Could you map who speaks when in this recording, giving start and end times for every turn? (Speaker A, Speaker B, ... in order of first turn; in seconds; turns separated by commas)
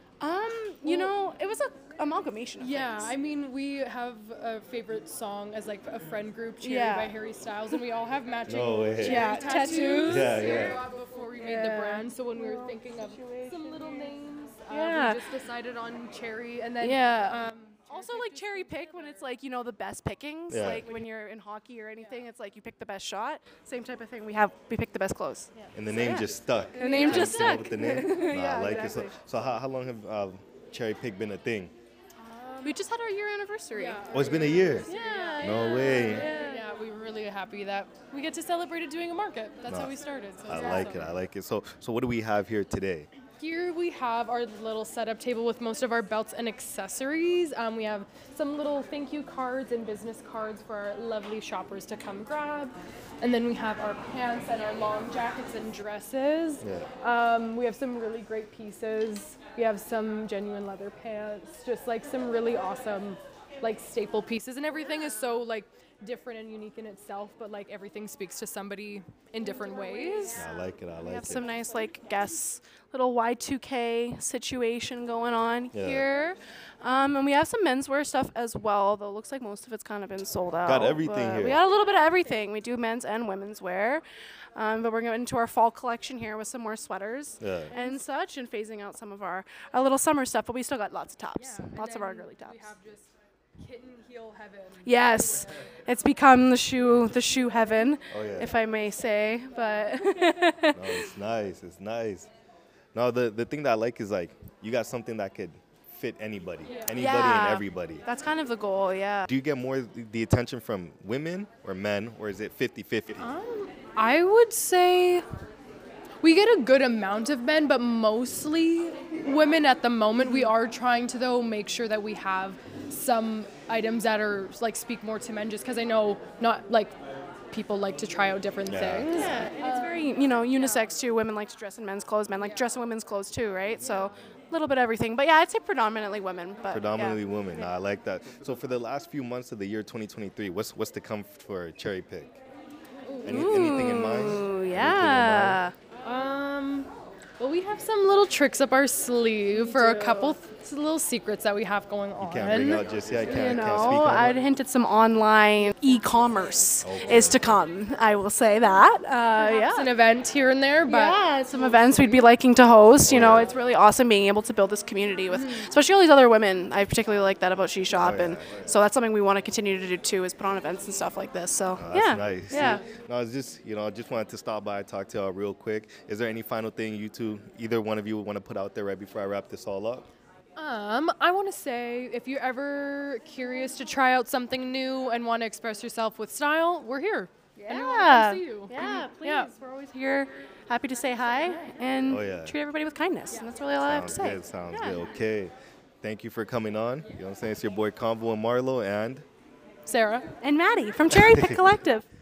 Speaker A: 0.2-3.1, Speaker B: 0.8-1.1, Speaker B: 2.6-19.4, Speaker A: 6.6-7.2, Speaker C: 8.5-9.3, Speaker A: 9.0-10.4, Speaker C: 10.0-10.8, Speaker A: 11.4-14.2, Speaker A: 14.7-15.3, Speaker A: 16.8-29.2, Speaker C: 20.5-20.9, Speaker B: 20.6-21.2, Speaker B: 22.0-22.3, Speaker B: 25.6-26.2, Speaker C: 25.7-31.7, Speaker B: 26.7-27.6, Speaker B: 32.2-32.8, Speaker A: 32.6-34.1, Speaker B: 33.7-41.1, Speaker C: 34.1-36.3, Speaker A: 36.2-36.7, Speaker C: 39.7-43.1, Speaker B: 43.4-70.4, Speaker C: 56.6-56.9, Speaker C: 70.3-71.5, Speaker A: 71.0-84.0, Speaker C: 75.7-76.1, Speaker C: 80.7-81.6, Speaker A: 84.6-92.7, Speaker C: 87.4-87.7, Speaker B: 87.7-88.1, Speaker B: 91.3-95.5, Speaker A: 94.8-101.0, Speaker C: 98.1-98.5, Speaker C: 100.8-102.3, Speaker C: 102.9-108.0, Speaker A: 107.0-109.3, Speaker C: 109.3-113.3, Speaker B: 113.2-115.2, Speaker B: 116.2-127.0, Speaker A: 120.2-120.5, Speaker B: 127.5-130.9, Speaker C: 128.7-129.4, Speaker A: 129.0-137.2, Speaker C: 136.7-142.4, Speaker B: 143.1-144.4, Speaker C: 143.2-145.6, Speaker A: 143.3-145.7, Speaker B: 146.0-153.9, Speaker A: 149.5-150.4, Speaker C: 152.2-154.4, Speaker A: 152.6-159.9, Speaker C: 156.8-157.5, Speaker B: 159.3-162.3, Speaker A: 160.9-172.8, Speaker C: 163.1-163.6, Speaker B: 165.3-165.7, Speaker C: 168.0-168.7, Speaker C: 171.8-180.1, Speaker B: 172.6-172.8, Speaker B: 180.6-190.0, Speaker A: 187.7-195.0, Speaker B: 191.3-191.7, Speaker C: 192.1-192.6, Speaker B: 193.3-193.6, Speaker C: 193.8-199.2, Speaker B: 199.9-200.3, Speaker A: 200.4-202.1